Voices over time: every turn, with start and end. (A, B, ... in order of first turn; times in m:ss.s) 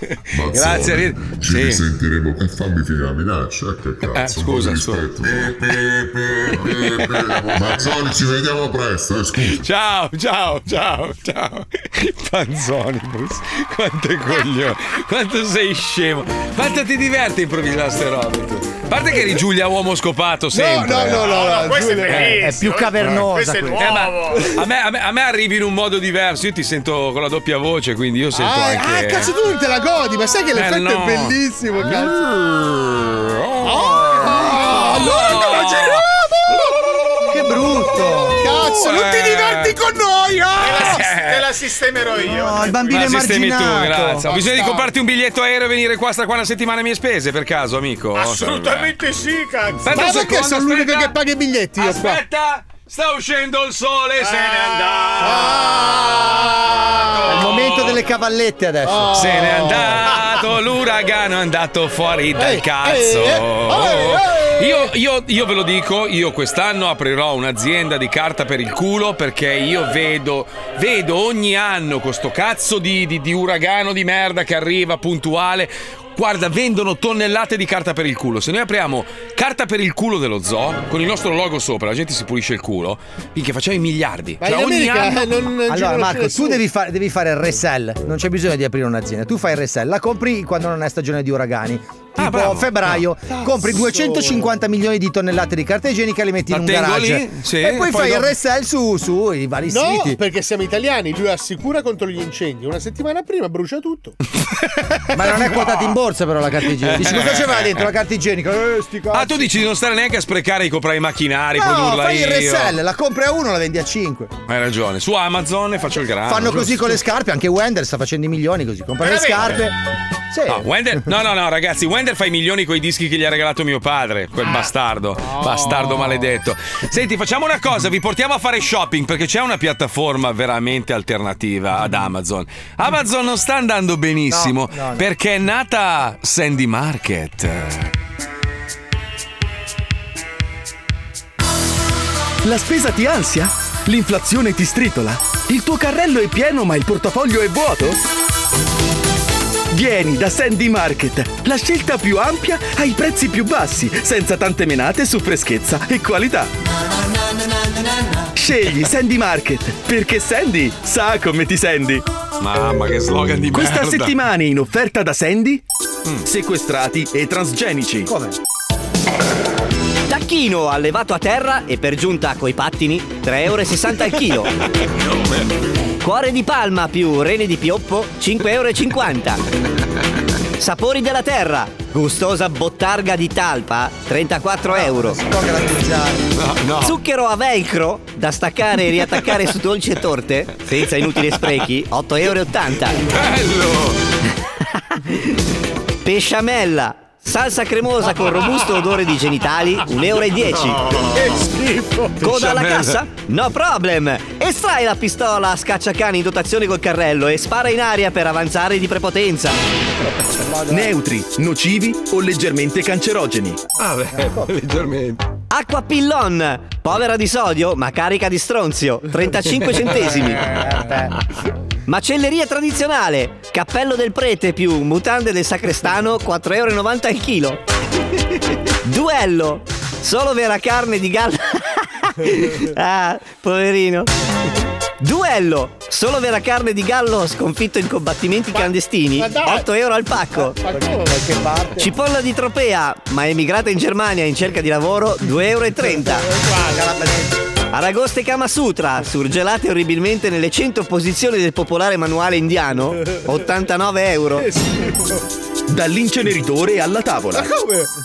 0:00.3-0:09.6 A
0:00.5-0:01.8 B
0:04.1-0:05.8 B
0:06.5-0:07.2 B
0:09.5-0:21.5 B
0:20.5-0:22.4 C
0:21.1-0:24.5 D
0:22.1-0:22.4 B
0:22.2-0:23.8 E
0:23.8-0:29.3 B
0:28.3-0:32.2 C
0:30.5-0:36.0 B
0:33.6-0:36.7 C
0:37.3-0:38.4 E
0:38.4-0:41.0 C
0:38.5-0:39.8 B
0:40.6-0:43.1 D
0:40.7-0:41.6 B
0:42.3-0:44.3 E
0:42.9-0:49.0 B
0:44.3-0:44.8 C
0:48.1-0:50.0 D
0:49.8-0:51.1 B
0:49.9-0:52.2 C
0:51.8-0:56.5 B
0:54.2-0:55.2 D
0:55.2-0:57.4 C
0:57.0-0:58.0 B
0:57.3-0:59.2 E
0:58.8-1:00.3 C
0:59.1-1:25.3 B
1:02.4-1:04.9 C
1:24.4-1:26.6 C
1:25.7-1:40.2 E
1:32.2-1:33.0 B
1:33.3-1:34.5 C
1:36.5-1:38.3 B
1:39.7-1:44.2 C
1:45.1-1:49.4 E
1:46.8-1:47.9 B
1:49.1-1:52.8 B
1:51.6-1:54.3 E
1:54.5-1:57.0 B
1:56.3-1:59.8 E
2:00.3-2:01.0 E
2:00.5-2:17.9 B
2:05.4-2:06.1 C
2:14.3-2:15.1 E
2:22.4-2:28.0 F
2:29.7-2:36.5 F
2:38.4-2:42.0 F
2:42.4-2:44.2 B
2:43.5-2:45.6 F
2:46.2-2:48.1 F
2:48.0-2:48.4 E
2:50.1-2:54.5 G
2:56.0-2:59.4 G
3:00.6-3:05.2 G
3:04.6-3:06.3 E
3:06.4-3:07.0 B
3:06.8-3:13.0 G
3:10.7-3:11.7 B
3:13.0-3:14.0 B
3:16.0-3:20.8 G
3:20.6-3:21.3 B
3:22.2-3:29.6 G
3:22.2-3:23.0 B
3:30.3-3:30.9 E
3:30.7-3:33.6 F
3:33.8-3:35.2 B
3:34.1-3:34.5 E
3:35.5-3:40.5 G
3:39.6-3:40.0 B
3:40.4-3:41.1 E
3:41.8-3:47.6 G
3:48.8-3:54.1 G
3:55.0-4:00.6 G
3:58.5-3:59.7 C
4:00.3-4:01.3 C
4:00.7-4:01.9 E
4:01.8-4:06.3 G
4:06.4-4:06.8 C
4:06.7-4:07.4 E
4:07.7-4:14.5 G
4:15.7-4:17.6 F
4:17.4-4:17.8 C